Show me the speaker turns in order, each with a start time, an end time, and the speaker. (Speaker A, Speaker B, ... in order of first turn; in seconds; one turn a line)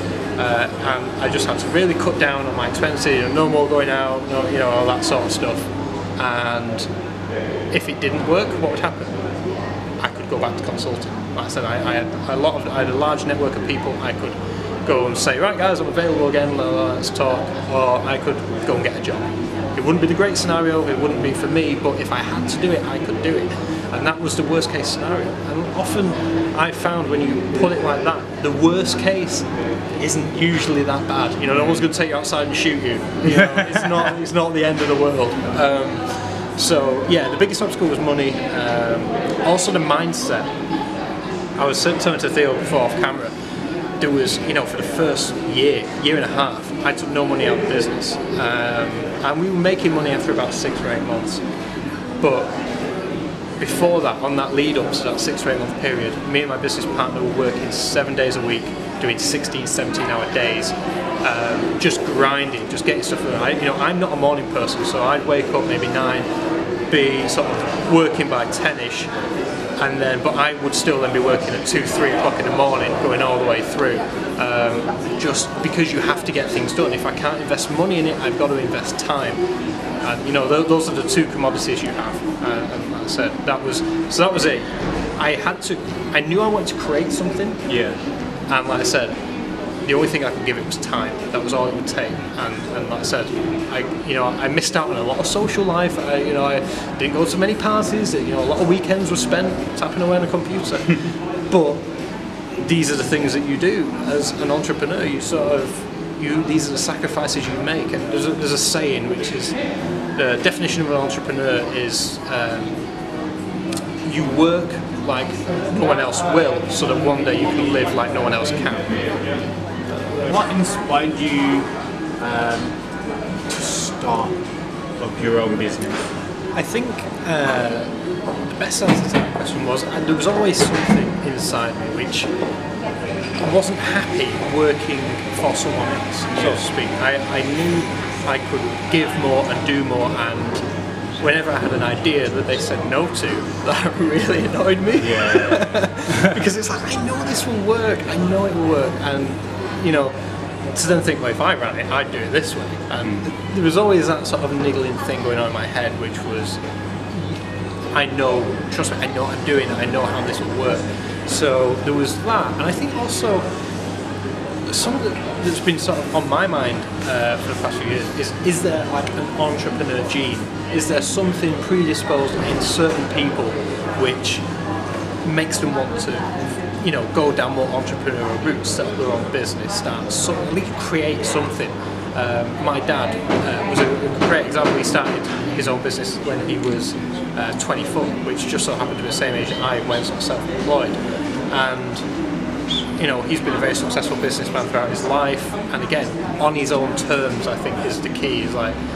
Speaker A: 0.4-6.9
Speaker A: 7.7-9.2
Speaker A: 10.0-29.5
Speaker A: 30.0-40.5
Speaker B: 31.5-31.9
Speaker B: 33.2-34.1
Speaker A: 41.6-43.3
Speaker A: 44.0-51.4
Speaker A: 52.2-52.5
Speaker A: 53.6-66.3
Speaker A: 66.9-69.1
Speaker A: 69.8-79.4
Speaker A: 80.0-87.6
Speaker B: 87.7-88.0
Speaker A: 88.5-89.2
Speaker A: 89.8-101.8
Speaker A: 102.6-109.6
Speaker A: 110.2-112.8
Speaker A: 114.0-119.0
Speaker B: 120.2-121.7
Speaker B: 122.2-122.7
Speaker B: 123.5-124.4
Speaker B: 125.0-126.1
Speaker A: 126.5-127.9
Speaker A: 128.5-132.3
Speaker A: 133.4-140.6
Speaker B: 136.3-136.6
Speaker A: 141.2-150.1
Speaker B: 145.0-146.4
Speaker A: 150.8-156.6
Speaker B: 153.0-153.3
Speaker A: 157.9-163.5
Speaker A: 164.7-174.4
Speaker A: 175.2-191.0
Speaker A: 191.5-192.0
Speaker A: 193.0-198.8